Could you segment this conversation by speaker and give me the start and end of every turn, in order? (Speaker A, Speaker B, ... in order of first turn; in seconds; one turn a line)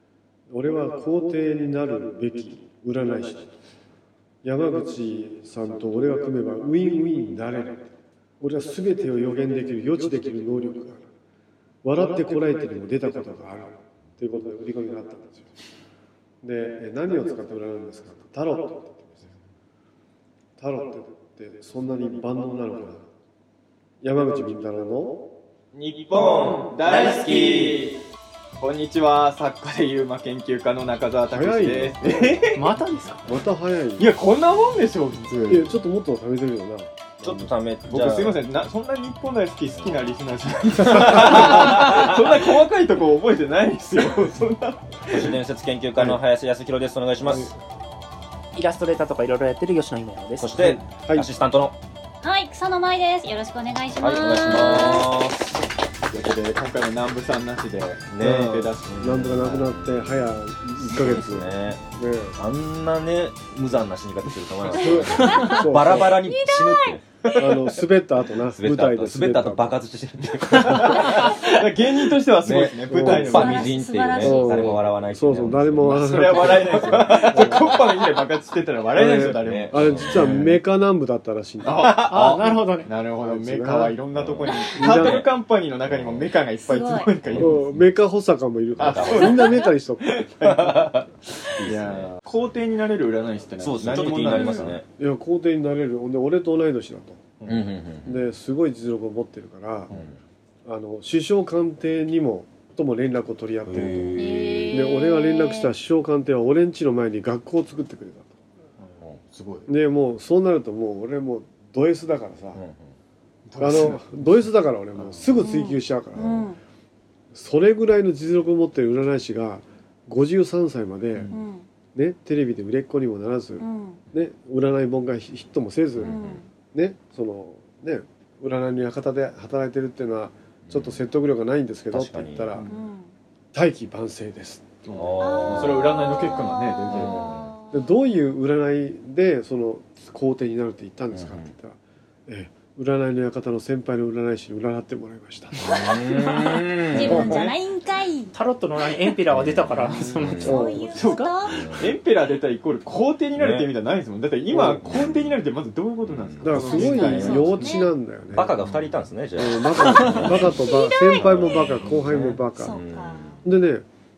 Speaker A: 0.5-3.5
Speaker A: 4.4-11.1
Speaker A: 11.8-15.5
Speaker A: 16.4-19.3
Speaker A: 20.6-23.1
Speaker A: 24.0-25.3
Speaker B: 25.7-28.0
Speaker C: 26.1-27.7
Speaker B: 28.6-32.8
Speaker A: 31.3-32.4
Speaker D: 32.5-33.3
Speaker A: 33.2-34.1
Speaker B: 34.0-35.7
Speaker A: 35.5-37.5
Speaker C: 37.2-38.4
Speaker B: 37.9-45.3
Speaker C: 39.7-40.0
Speaker A: 40.8-41.4
Speaker C: 40.8-42.4
Speaker C: 45.1-47.5
Speaker A: 47.3-47.5
Speaker D: 48.5-50.6
Speaker C: 50.4-51.8
Speaker E: 52.2-55.1
Speaker C: 54.0-55.6
Speaker B: 56.1-59.0
Speaker C: 58.1-67.8
Speaker A: 59.0-62.4
Speaker E: 64.7-67.0
Speaker A: 64.8-66.2
Speaker A: 67.3-69.8
Speaker C: 68.5-71.6
Speaker B: 70.5-73.7
Speaker C: 72.4-77.7
Speaker A: 72.9-73.6
Speaker E: 73.3-74.7
Speaker A: 74.2-77.6
Speaker B: 75.8-80.6
Speaker A: 78.9-82.1
Speaker C: 79.4-80.3
Speaker B: 81.6-87.7
Speaker C: 81.8-82.6
Speaker D: 81.9-82.9
Speaker A: 83.2-84.0
Speaker C: 84.1-85.3
Speaker A: 84.8-85.2
Speaker C: 85.8-86.3
Speaker E: 86.6-87.1
Speaker C: 87.2-87.8
Speaker A: 87.4-90.2
Speaker C: 88.8-89.5
Speaker B: 88.8-91.0
Speaker C: 90.4-92.1
Speaker B: 91.6-94.8
Speaker C: 93.6-94.8
Speaker E: 94.3-94.5
Speaker A: 95.0-97.2
Speaker B: 97.4-97.7
Speaker C: 97.5-98.2
Speaker A: 98.0-99.9
Speaker C: 99.9-100.2
Speaker A: 100.7-108.3
Speaker C: 103.7-104.9
Speaker E: 104.2-105.7
Speaker B: 108.8-109.7
Speaker A: 109.7-112.6
Speaker C: 112.5-112.9
Speaker B: 113.5-115.3
Speaker A: 113.6-116.5
Speaker E: 115.4-116.6
Speaker A: 117.3-121.3
Speaker B: 121.1-121.4
Speaker E: 121.3-121.7
Speaker A: 122.0-126.2
Speaker E: 123.6-124.0
Speaker C: 126.0-126.4
Speaker E: 126.0-126.5
Speaker A: 126.7-132.6
Speaker C: 130.7-131.0
Speaker C: 131.9-132.6
Speaker B: 132.5-132.8
Speaker E: 132.6-133.1
Speaker A: 133.5-134.7
Speaker B: 134.8-137.3
Speaker C: 134.9-136.1
Speaker E: 135.2-138.0
Speaker C: 136.9-137.5
Speaker A: 137.7-145.5
Speaker C: 141.1-141.5
Speaker C: 145.6-147.5
Speaker E: 145.6-148.3
Speaker D: 148.3-151.3
Speaker C: 149.3-150.7
Speaker B: 149.9-157.7
Speaker E: 150.4-151.7
Speaker A: 150.4-150.8
Speaker C: 151.5-151.9
Speaker C: 153.3-153.7
Speaker A: 154.5-154.8
Speaker C: 154.8-155.2
Speaker C: 156.1-157.3
Speaker A: 156.4-158.6
Speaker E: 156.6-157.9
Speaker C: 158.3-160.6
Speaker A: 159.4-162.8
Speaker E: 160.5-161.9
Speaker C: 161.1-163.4
Speaker E: 162.6-163.4
Speaker A: 163.4-163.8